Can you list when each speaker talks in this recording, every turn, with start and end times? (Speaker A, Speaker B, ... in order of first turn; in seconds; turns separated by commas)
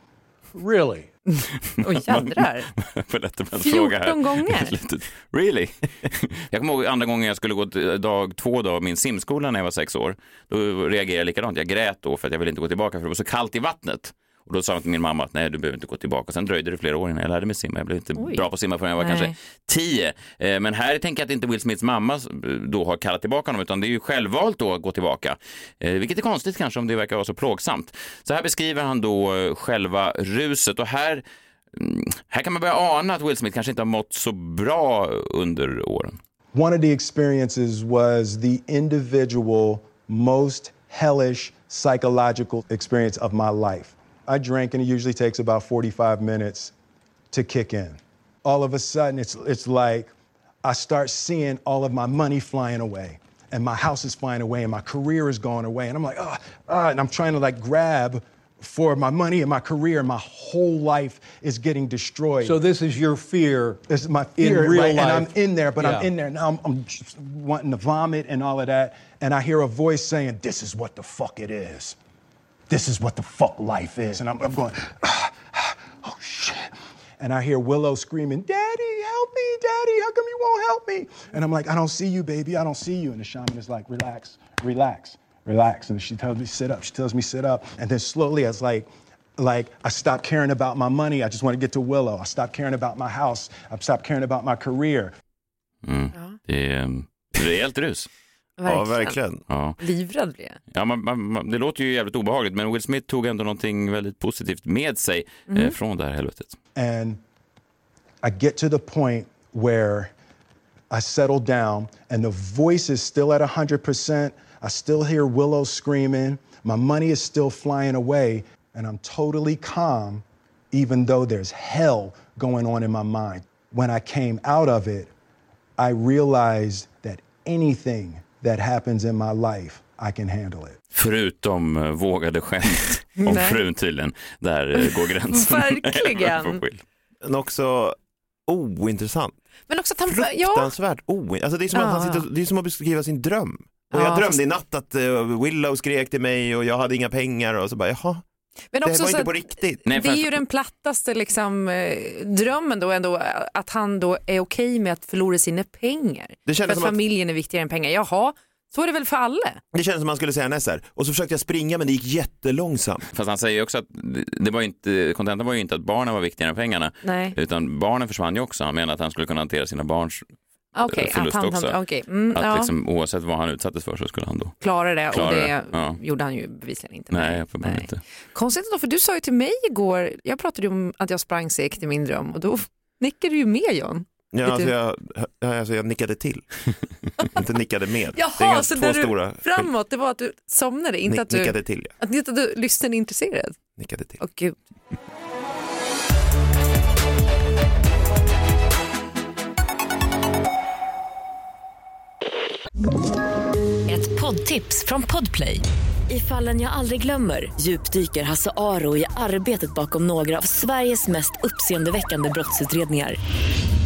Speaker A: 0.5-1.1, Speaker B: 1.3-2.7, Speaker C: 1.9-36.2, Speaker B: 3.6-4.8, Speaker B: 18.2-18.5, Speaker B: 19.0-19.3, Speaker D: 36.5-46.7, Speaker D: 47.3-50.1, Speaker D: 50.6-62.6, Speaker A: 62.4-63.8, Speaker D: 63.9-72.0, Speaker A: 64.4-66.1, Speaker D: 72.7-95.1, Speaker C: 95.8-98.1, Speaker B: 98.6-99.2, Speaker E: 98.7-99.4, Speaker C: 99.5-99.8, Speaker B: 99.8-100.6, Speaker C: 100.7-106.5, Speaker B: 105.5-105.8, Speaker D: 106.8-107.2, Speaker D: 108.2-110.1, Speaker D: 110.9-125.1, Speaker D: 125.8-130.8, Speaker C: 130.9-136.8, Speaker B: 133.2-133.6, Speaker B: 134.8-136.6, Speaker E: 137.2-139.4, Speaker B: 139.7-140.7, Speaker E: 140.1-148.2, Speaker B: 141.7-142.2, Speaker B: 143.9-144.4, Speaker B: 148.7-159.6, Speaker E: 148.8-149.9, Speaker C: 149.9-150.3, Speaker E: 156.4-157.0, Speaker E: 159.7-163.1, Speaker C: 163.1-170.3, Speaker B: 167.0-167.4, Speaker B: 170.7-172.7, Speaker C: 170.9-171.8, Speaker C: 172.3-174.6, Speaker B: 174.6-184.7, Speaker C: 175.1-176.0, Speaker C: 177.1-178.0, Speaker E: 184.3-189.7, Speaker B: 188.1-194.6, Speaker E: 191.1-191.9, Speaker E: 193.8-194.2, Speaker F: 203.9-213.2